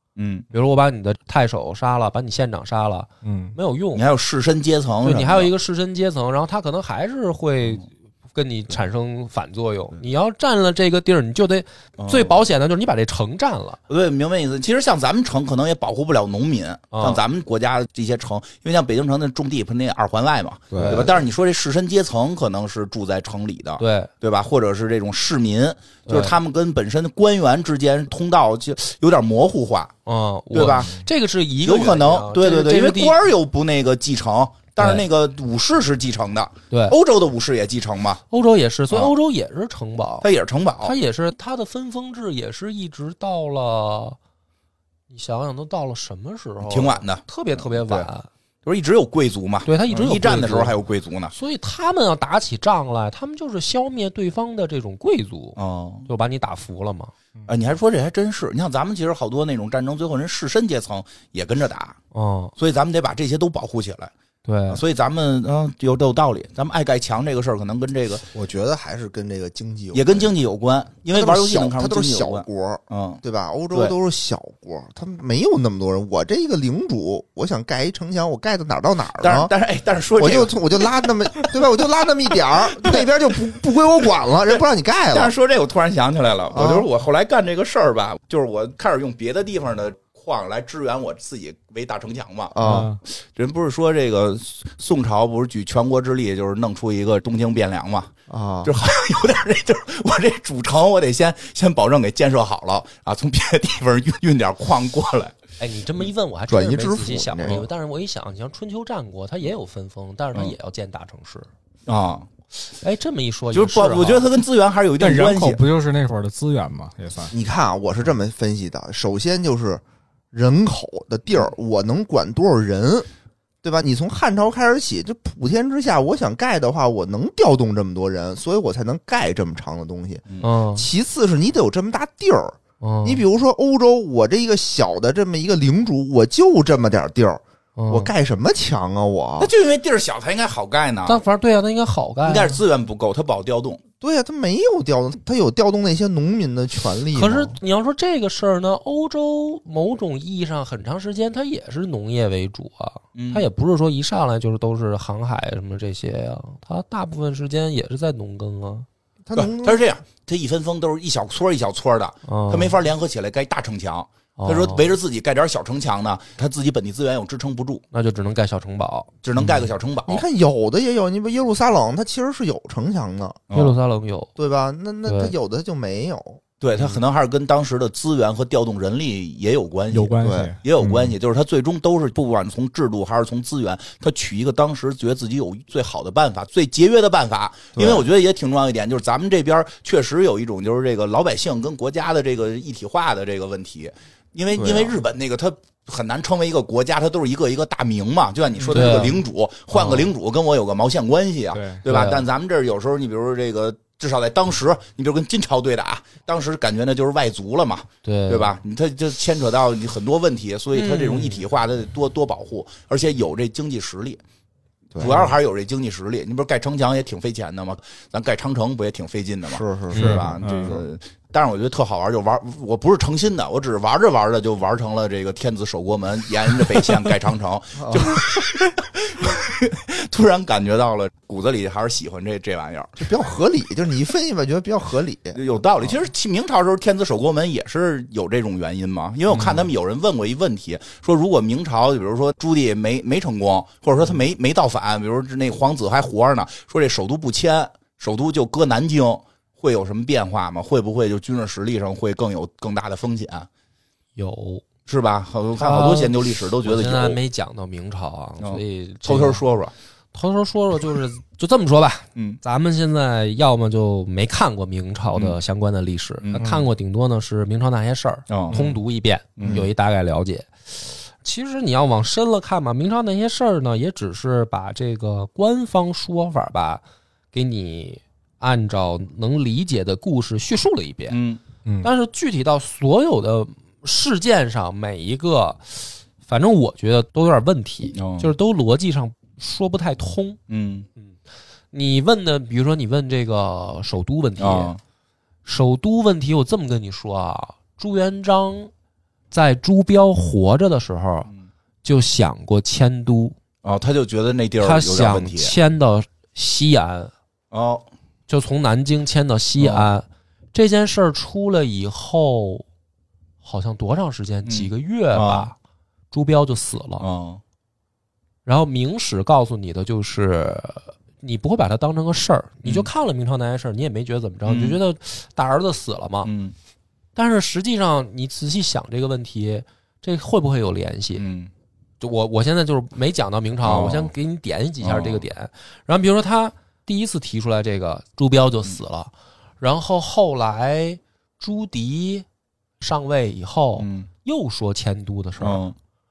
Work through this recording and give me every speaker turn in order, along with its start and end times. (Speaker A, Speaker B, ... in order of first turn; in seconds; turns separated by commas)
Speaker A: 0.1-0.5, Speaker B: 0.5-4.0, Speaker C: 3.2-3.5, Speaker A: 3.9-5.5, Speaker B: 5.0-13.8, Speaker A: 12.0-12.4, Speaker A: 13.9-29.9, Speaker B: 16.9-17.2, Speaker D: 20.7-21.1, Speaker B: 20.7-21.1, Speaker B: 23.8-24.1, Speaker B: 26.1-26.4, Speaker B: 30.1-33.2, Speaker A: 30.5-31.0, Speaker A: 31.6-38.2, Speaker B: 34.8-35.0, Speaker B: 36.7-37.0, Speaker B: 38.3-40.3, Speaker A: 40.2-41.0, Speaker B: 40.8-44.2, Speaker B: 45.1-48.3, Speaker A: 46.6-48.1, Speaker A: 48.6-51.3, Speaker B: 49.6-50.8, Speaker B: 51.3-57.1, Speaker A: 55.5-56.1, Speaker A: 57.5-62.0, Speaker B: 62.1-62.5, Speaker A: 62.6-64.1, Speaker B: 64.4-64.8, Speaker A: 64.7-68.2, Speaker D: 68.3-70.3, Speaker A: 69.9-73.2, Speaker D: 71.1-79.5, Speaker A: 79.2-81.5, Speaker D: 80.2-85.3, Speaker A: 82.8-83.1, Speaker A: 84.5-98.1, Speaker D: 86.5-86.9, Speaker D: 92.5-92.9, Speaker C: 92.6-93.0, Speaker D: 98.3-98.7, Speaker A: 98.6-105.4, Speaker B: 105.6-111.5, Speaker D: 106.5-107.7, Speaker A: 111.9-112.3, Speaker B: 112.8-114.3, Speaker A: 113.5-115.6, Speaker C: 115.0-117.3, Speaker D: 117.3-123.1, Speaker D: 123.6-139.5, Speaker B: 130.4-130.9, Speaker B: 132.8-133.2, Speaker B: 137.8-138.1, Speaker A: 139.4-141.2, Speaker B: 141.1-142.6, Speaker A: 142.2-143.8, Speaker D: 144.0-147.5, Speaker B: 147.1-158.9, Speaker A: 153.1-153.4, Speaker D: 159.2-159.8, Speaker A: 159.3-167.8, Speaker B: 162.2-162.8, Speaker B: 164.4-164.9, Speaker B: 167.9-169.1, Speaker A: 169.2-170.2, Speaker D: 170.1-173.4, Speaker A: 173.5-173.8, Speaker B: 173.5-174.3, Speaker D: 174.3-176.4, Speaker B: 175.1-175.3, Speaker A: 176.6-214.2, Speaker C: 179.9-180.6, Speaker D: 180.2-181.1, Speaker D: 187.8-188.1, Speaker D: 194.5-195.0, Speaker B: 198.7-199.2, Speaker B: 199.7-200.1, Speaker C: 201.5-201.8, Speaker B: 201.8-202.2, Speaker B: 208.0-208.5, Speaker B: 210.7-211.4, Speaker D: 214.9-215.3, Speaker A: 215.0-233.0, Speaker D: 219.5-220.8, Speaker B: 219.9-220.2, Speaker C: 220.0-220.8, Speaker D: 227.8-228.2, Speaker D: 233.0-235.4, Speaker A: 235.3-253.5, Speaker B: 254.2-254.6, Speaker A: 254.9-257.2, Speaker B: 255.6-259.4, Speaker A: 258.4-259.7, Speaker B: 260.1-270.6, Speaker A: 266.2-266.5, Speaker A: 268.3-268.6, Speaker A: 269.4-269.7, Speaker B: 271.2-276.8, Speaker B: 277.3-281.2, Speaker A: 281.1-281.4, Speaker C: 281.6-281.9, Speaker B: 281.8-290.4, Speaker A: 287.9-288.3, Speaker A: 290.5-290.9, Speaker B: 291.7-294.7, Speaker A: 294.4-294.8, Speaker B: 295.4-298.7, Speaker B: 299.3-301.3, Speaker B: 301.8-303.4, Speaker A: 303.6-305.5, Speaker B: 304.6-307.1, Speaker A: 307.5-307.9, Speaker B: 308.3-312.6, Speaker A: 309.6-309.9, Speaker B: 313.4-315.5, Speaker A: 314.4-315.5, Speaker B: 316.1-317.0, Speaker A: 317.0-317.4, Speaker B: 318.4-326.3, Speaker A: 322.6-322.9, Speaker A: 324.4-324.8, Speaker A: 326.2-326.5, Speaker B: 327.1-331.2, Speaker A: 331.1-331.5, Speaker B: 332.0-342.2, Speaker A: 333.6-334.1, Speaker A: 334.8-335.2, Speaker B: 342.8-345.6, Speaker A: 343.8-344.1, Speaker A: 345.4-345.7